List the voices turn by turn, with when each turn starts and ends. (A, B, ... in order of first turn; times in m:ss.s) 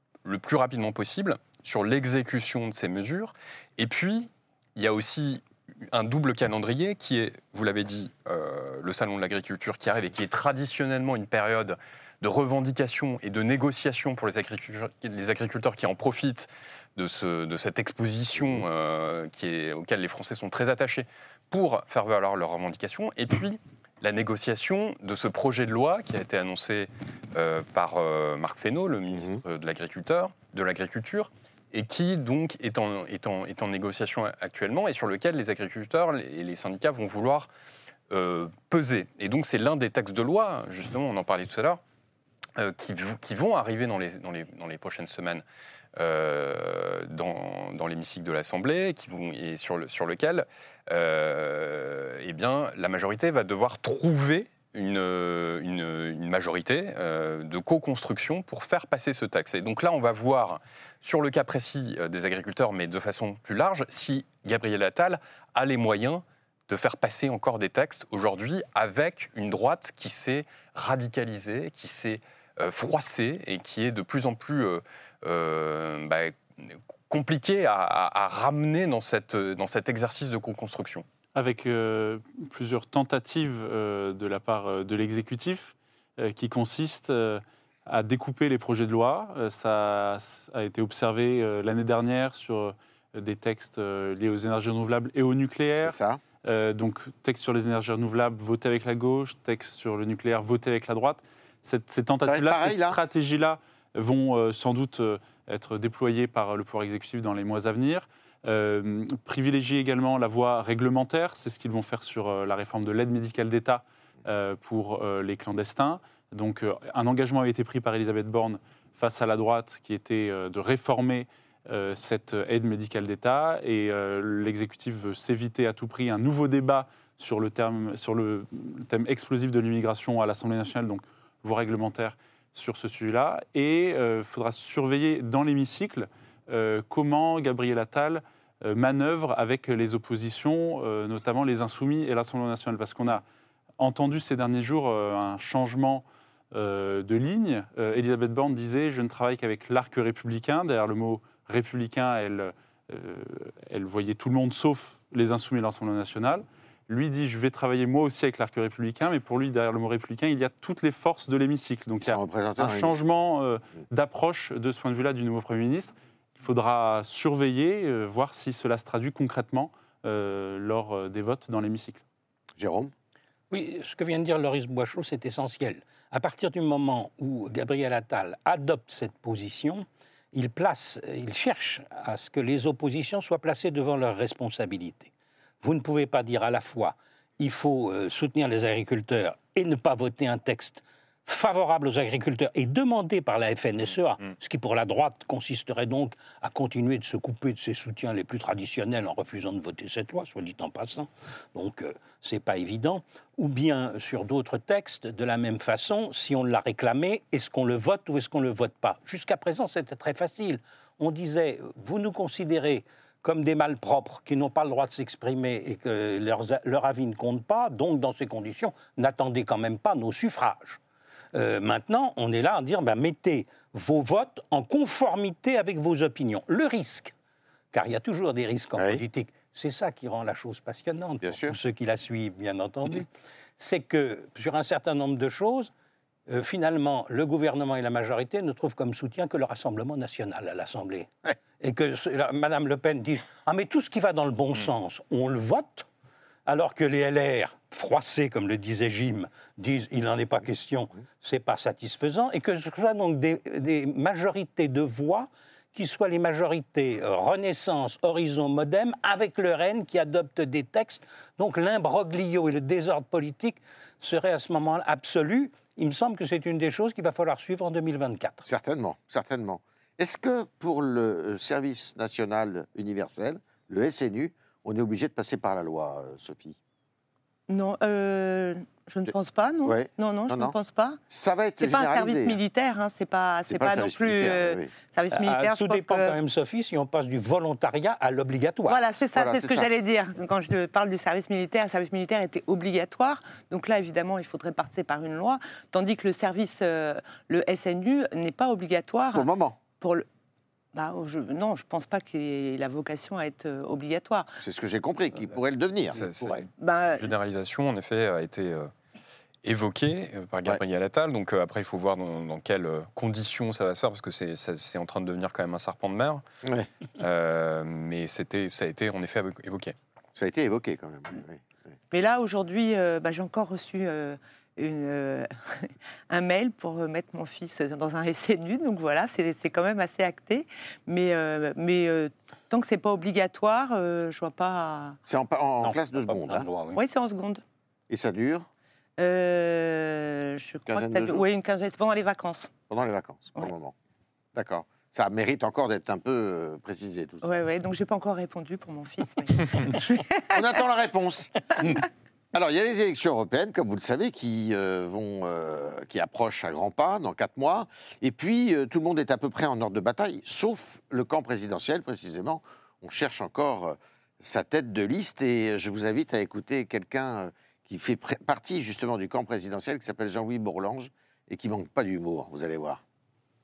0:00.2-0:37.5 A
0:29.1-0:29.4 B
0:38.1-0:41.8 A
0:42.6-0:45.4 A
0:46.0-1:21.0 A
1:21.3-2:23.2 C
1:35.8-1:36.2 B
1:42.2-1:43.0 B
2:23.8-2:52.0 C
2:42.0-2:43.0 B
2:52.6-2:52.9 B
2:53.5-3:05.1 D
3:05.6-3:40.8 D
3:41.3-3:47.1 D
3:47.7-3:55.7 D
3:48.8-3:49.0 B
3:51.2-3:51.6 B
3:56.3-4:05.9 D
4:06.4-4:28.4 D
4:28.4-4:36.6 B
4:37.5-4:41.0 E
4:39.6-4:40.6 B
4:41.1-4:42.4 B
4:41.6-4:46.2 E
4:43.5-4:44.7 B
4:45.1-4:48.9 D
4:48.7-5:00.0 E
4:49.1-4:49.7 B
4:59.1-4:59.6 B
5:00.7-5:04.3 E
5:04.4-5:06.4 B
5:05.9-5:08.7 A
5:06.6-5:07.1 E
5:09.4-5:16.2 A
5:17.0-5:19.7 A
5:20.1-5:21.4 B
5:21.9-5:35.0 E
5:35.0-5:36.5 B
5:35.6-5:36.8 D
5:36.7-5:37.4 E
5:37.9-5:38.5 B
5:39.0-5:42.5 E
5:40.7-5:41.2 B
5:42.7-5:43.7 B
5:44.3-5:47.2 B
5:47.2-5:50.2 E
5:50.3-5:51.8 B
5:52.3-6:12.8 B